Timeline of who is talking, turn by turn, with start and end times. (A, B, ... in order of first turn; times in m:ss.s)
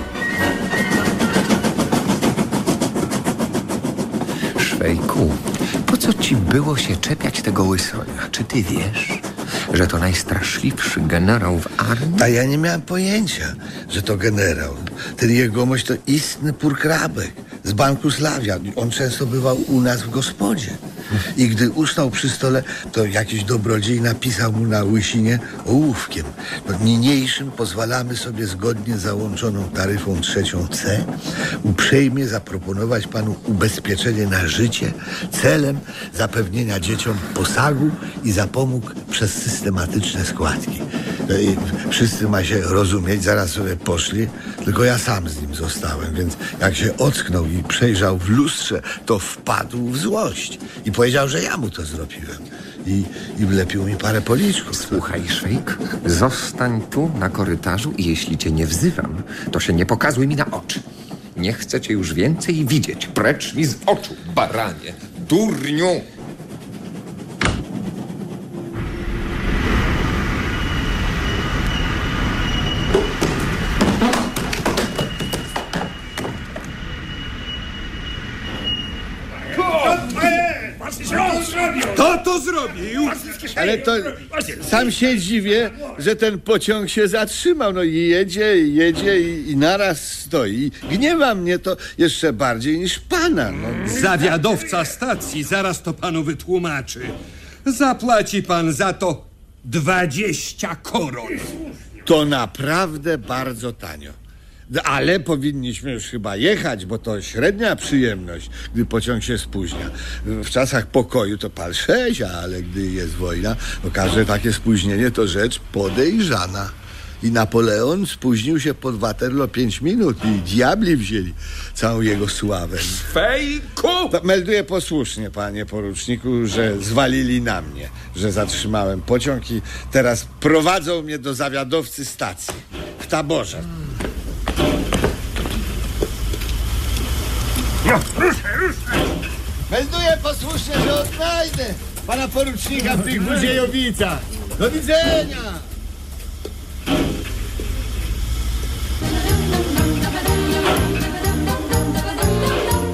0:04.6-0:12.3 A
0:12.2-0:20.8 B
0:21.3-0:31.1 B
0:31.6-0:55.0 B
0:54.7-1:00.8 A
1:01.4-1:06.0 A
1:19.6-1:23.4 C
1:23.4-1:34.1 B
1:34.0-1:37.1 C
1:37.6-1:41.6 C
1:42.0-1:44.2 B
1:44.7-2:03.2 B
2:04.1-2:13.7 B
2:19.7-2:25.7 B